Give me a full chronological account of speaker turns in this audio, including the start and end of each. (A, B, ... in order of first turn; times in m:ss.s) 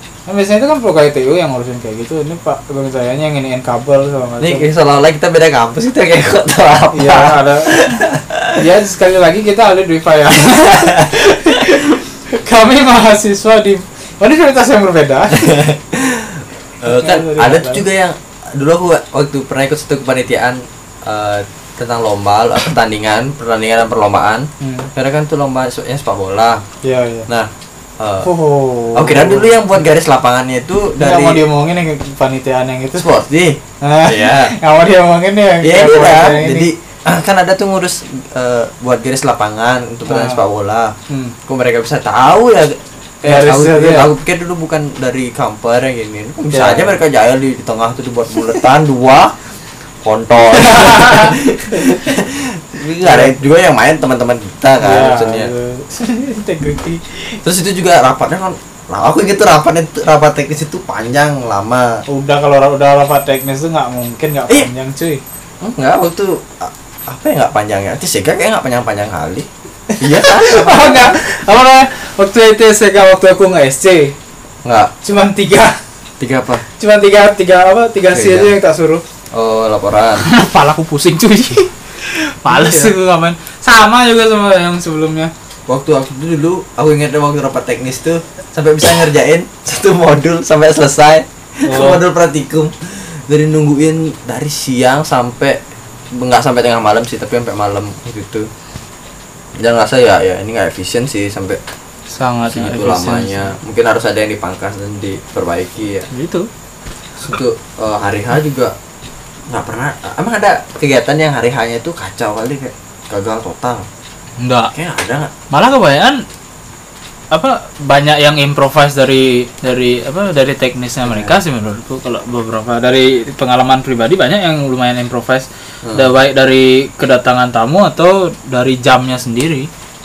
0:00.3-0:04.6 A
0:04.4-0:08.6 B
0:06.9-0:08.0 A
0:08.6-0:15.5 A
0:15.3-0:26.6 B
0:16.8-0:17.8 A
0:24.6-0:24.9 A
0:26.8-0:27.3 A
0:27.3-0:28.3 B
0:28.2-0:29.5 A
0:28.9-0:31.4 B
0:31.0-0:33.1 A
0:33.0-0:34.5 B
0:33.8-0:36.7 A
0:35.6-0:40.9 B
0:40.0-0:40.4 A
0:41.1-0:41.4 A
0:41.4-0:49.3 B
0:43.2-0:44.1 A
0:46.5-0:47.0 A
0:50.0-0:55.5 B
0:50.5-0:51.4 A
0:53.0-0:53.3 A
0:54.8-0:57.4 A
0:57.4-1:02.0 B
1:02.1-1:05.2 A
1:05.6-1:09.5 B
1:10.0-1:14.1 A
1:10.0-1:11.2 B
1:14.6-1:14.9 B
1:15.0-1:15.8 A
1:16.2-1:16.6 B
1:16.8-1:19.0 A
1:18.1-1:18.5 B
1:19.3-1:20.2 B
1:20.2-1:25.3 A
1:22.5-1:22.9 B
1:25.7-1:35.6 B
1:31.6-1:32.0 A
1:36.1-1:38.5 B
1:39.6-1:41.6 B
1:42.1-1:43.5 A
1:42.4-1:46.1 B
1:46.1-1:46.5 A
1:47.2-1:48.7 B
1:49.5-1:53.9 B
1:54.4-1:54.7 A
1:54.7-1:55.3 B
1:55.5-1:56.2 A
1:57.3-2:09.7 A
2:01.1-2:01.3 B